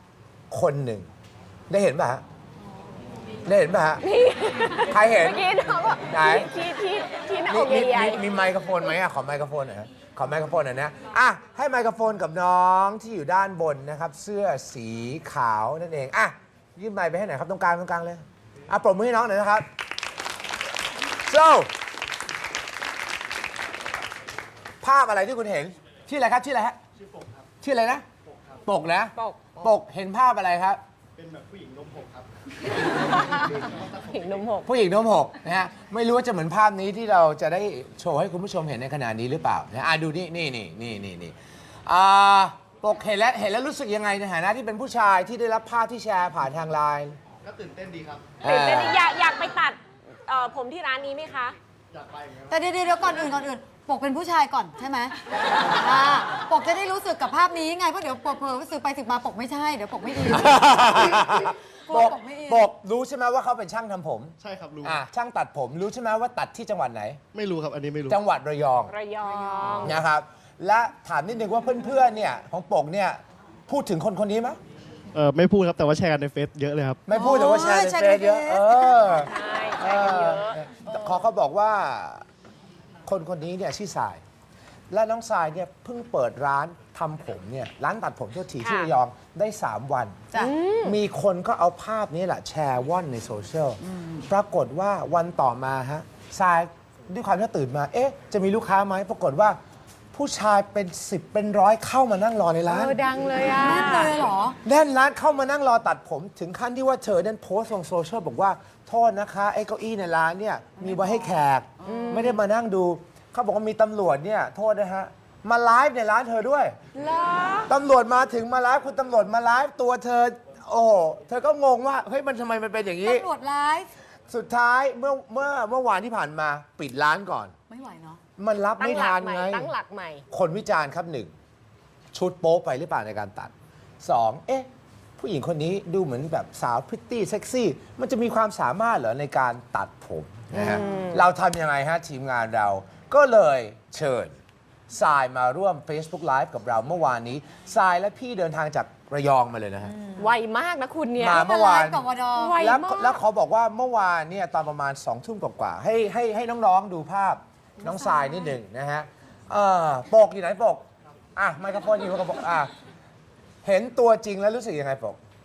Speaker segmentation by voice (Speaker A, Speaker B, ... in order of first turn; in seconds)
Speaker A: 0.5-1.1, 1.7-2.2, 3.5-4.0, 4.9-5.5, 6.0-6.5, 7.5-19.7, 21.3-21.7, 24.8-26.8, 27.6-28.1, 28.6-30.8, 34.6-41.4, 41.9-47.2, 48.4-49.0, 60.2-67.2, 68.1-68.9, 69.8-74.6, 77.1-82.2, 83.0-84.2, 84.9-90.2, 90.8-99.6, 100.1-103.0, 104.6-116.8, 117.7-123.3, 124.3-127.5, 128.4-129.7, 130.3-131.3, 132.1-144.4, 144.9-149.9, 151.2-152.1, 152.6-160.8, 161.4-162.7, 163.6-165.2
Speaker B: 4.0-8.2, 29.2-29.6, 33.0-34.7, 48.4-51.6, 68.9-70.0, 79.1-80.6, 88.6-88.9, 90.4-91.0, 102.7-104.2, 111.9-112.4, 117.0-117.7, 128.8-130.2, 140.5-141.3, 150.2-151.4, 152.4-153.2
Speaker C: 31.2-32.3, 33.0-34.2, 47.5-48.4, 51.9-52.6, 64.4-65.0, 67.3-68.2, 75.1-77.0
Speaker D: 52.5-62.7, 69.4-69.9, 77.1-79.1, 93.9-94.3, 103.5-104.6, 110.8-112.3, 123.0-123.9, 127.7-128.2, 140.6-141.0, 149.9-150.3, 151.3-152.6, 157.8-158.6